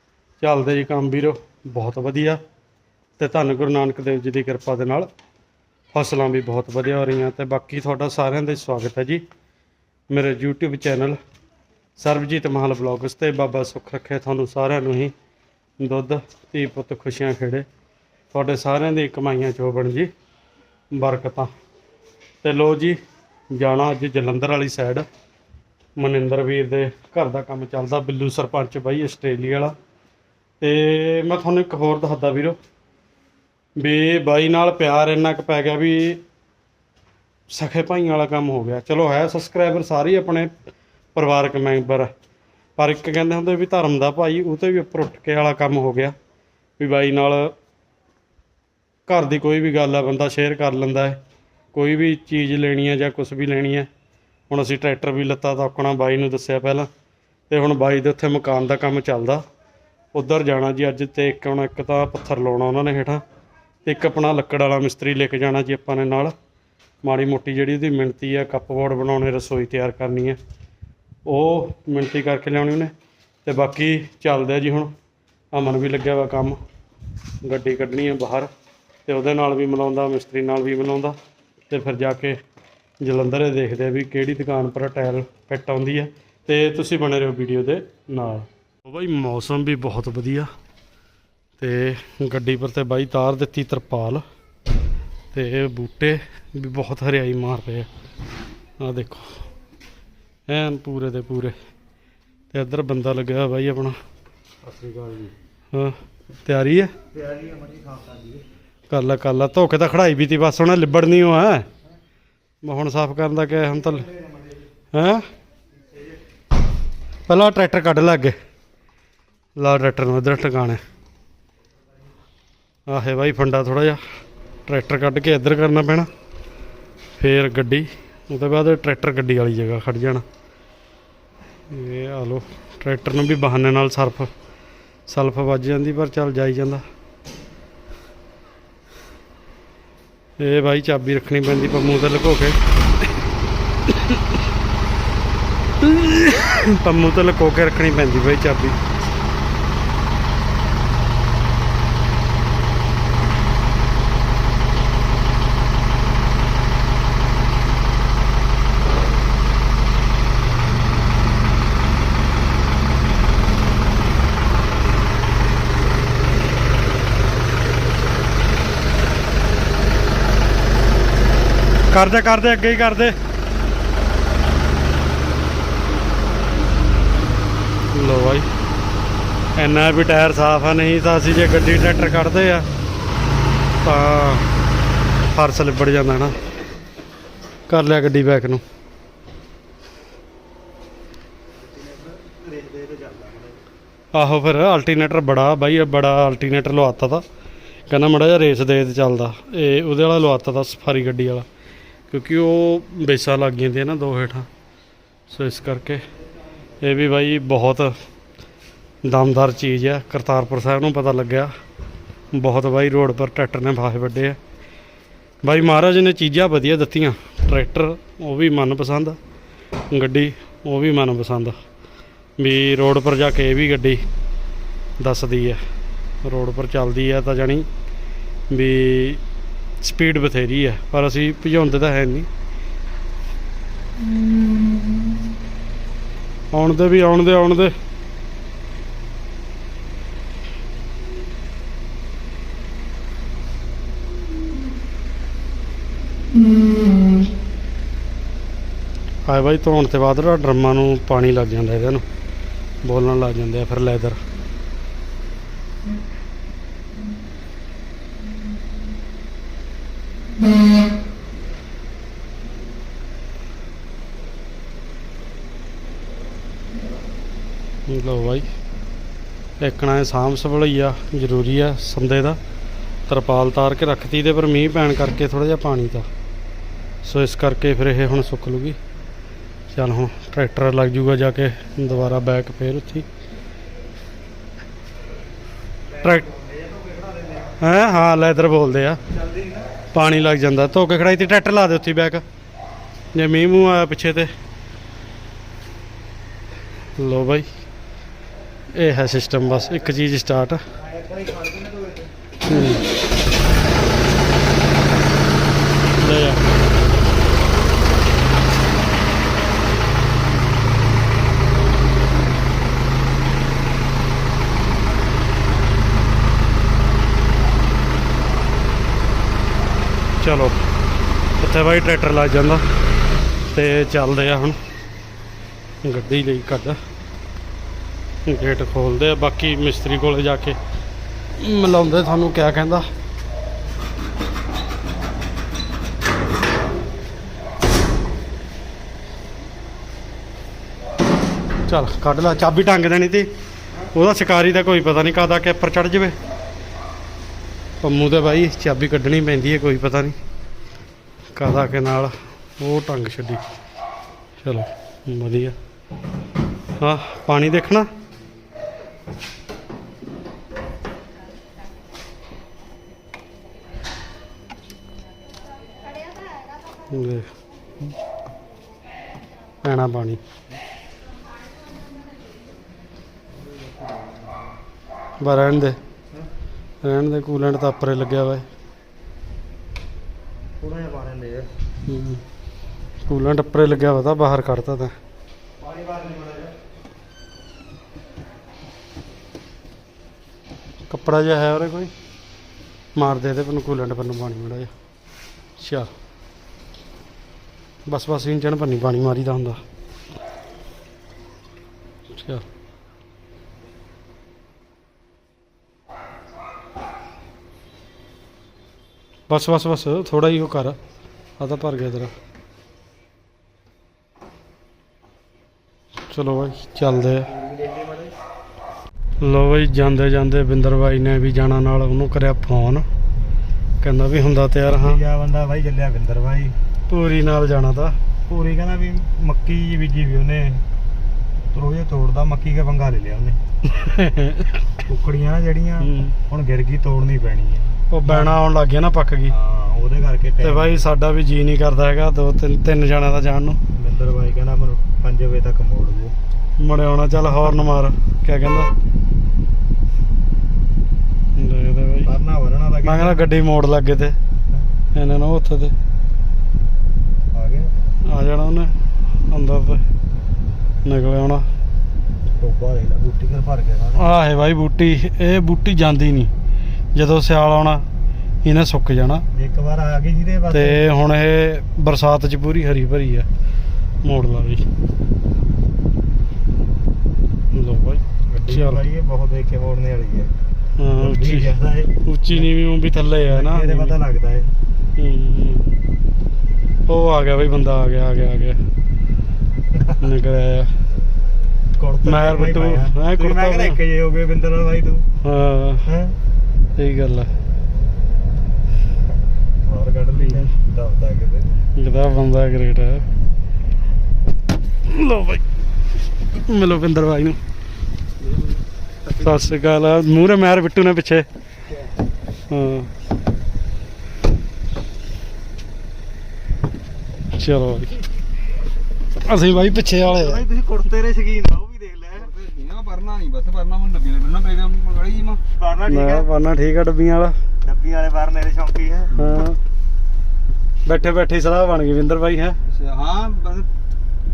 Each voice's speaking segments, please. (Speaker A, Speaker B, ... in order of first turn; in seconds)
Speaker A: 0.4-2.4, 3.2-5.1, 5.9-9.2, 10.1-11.2, 12.0-15.1, 15.8-17.7, 18.3-20.1, 20.9-21.5, 22.4-23.0, 23.5-25.1, 26.0-29.8, 30.6-32.6, 33.8-36.2, 37.5-40.5, 41.1-42.1, 42.8-46.2, 46.8-47.5, 49.1-51.2, 51.7-53.9, 54.5-56.9, 57.5-59.4, 60.1-63.2, 63.9-66.3, 67.0-70.4, 71.2-72.9, 73.5-74.9, 75.5-76.6, 77.4-78.5, 79.1-81.2, 81.7-82.4, 83.0-90.5, 91.6-94.2, 95.3-97.9, 98.8-99.5, 100.5-101.6, 102.5-104.0, 105.7-106.9, 108.9-111.7, 112.6-114.1, 114.9-115.3, 117.3-118.4, 119.6-120.8, 122.9-124.0, 124.7-126.1, 127.2-130.2, 131.7-134.3, 135.1-136.8, 140.4-142.6, 143.9-144.4, 145.8-148.8, 171.9-173.2, 177.9-178.5, 179.6-182.7, 183.8-184.5, 185.3-186.3, 187.7-188.6, 194.1-197.2, 197.9-201.5, 202.1-204.5, 205.3-206.0, 206.8-207.9, 209.0-211.5, 212.3-214.4, 215.4-219.2, 219.9-221.6, 222.4-224.1, 225.0-225.6, 226.2-227.7, 228.5-229.2, 229.8-232.3, 236.5-237.8, 249.3-252.1, 252.8-254.2, 267.9-268.5, 269.6-272.4, 273.1-276.1, 277.0-278.8, 279.7-283.1, 287.6-289.0, 289.9-292.2, 293.1-294.3, 297.0-297.5, 298.7-300.6, 302.5-302.9, 306.0-306.5, 320.2-320.6, 321.4-322.6, 323.5-324.6, 325.8-326.8, 328.2-330.6, 331.4-332.9, 341.7-343.3, 343.9-346.2, 347.8-350.2, 351.4-353.4, 354.4-355.6, 356.8-357.9, 366.9-367.3, 369.6-370.2, 375.2-375.8, 376.8-378.5, 381.9-382.2, 383.1-385.0, 390.9-391.9, 392.9-394.7, 395.6-395.9, 397.9-399.6, 402.1-402.4, 409.3-410.8, 411.4-412.1, 416.1-417.3, 419.2-422.9, 423.8-425.0, 426.9-428.0, 433.7-434.5, 435.8-436.1, 437.9-439.4, 440.4-443.6, 446.6-448.7, 451.4-452.1, 452.8-454.2, 454.9-455.7, 458.1-458.8, 459.3-459.8, 460.8-461.5, 464.0-466.3, 466.9-467.9, 468.4-469.2, 470.5-473.3, 474.0-474.7, 477.5-478.8, 480.8-481.5, 482.0-483.9, 485.0-485.7, 486.9-488.6, 490.0-490.8, 492.1-493.8, 495.2-495.8, 496.8-497.3, 501.8-503.1, 504.9-505.4, 506.4-507.4, 509.2-511.3, 512.5-512.9, 517.3-518.0, 519.2-520.4, 525.9-527.4, 529.1-529.6, 530.9-532.6
Speaker B: 104.6-105.3, 107.1-108.5, 113.6-114.7, 191.6-193.6, 285.9-287.6, 289.0-289.7, 300.7-302.1, 380.6-381.5, 385.6-386.6, 417.2-418.1, 424.7-426.6, 428.3-430.6, 431.5-433.4, 434.9-438.4, 439.3-440.9, 443.8-446.1, 452.0-453.3, 457.3-457.7, 462.4-464.0, 469.3-470.8, 478.3-480.3, 481.0-482.5, 483.3-484.5, 491.8-495.1, 495.9-496.2, 499.6-501.5, 520.0-522.3, 525.5-526.3, 527.6-529.1
Speaker C: 508.2-509.3, 522.2-525.4, 532.7-533.7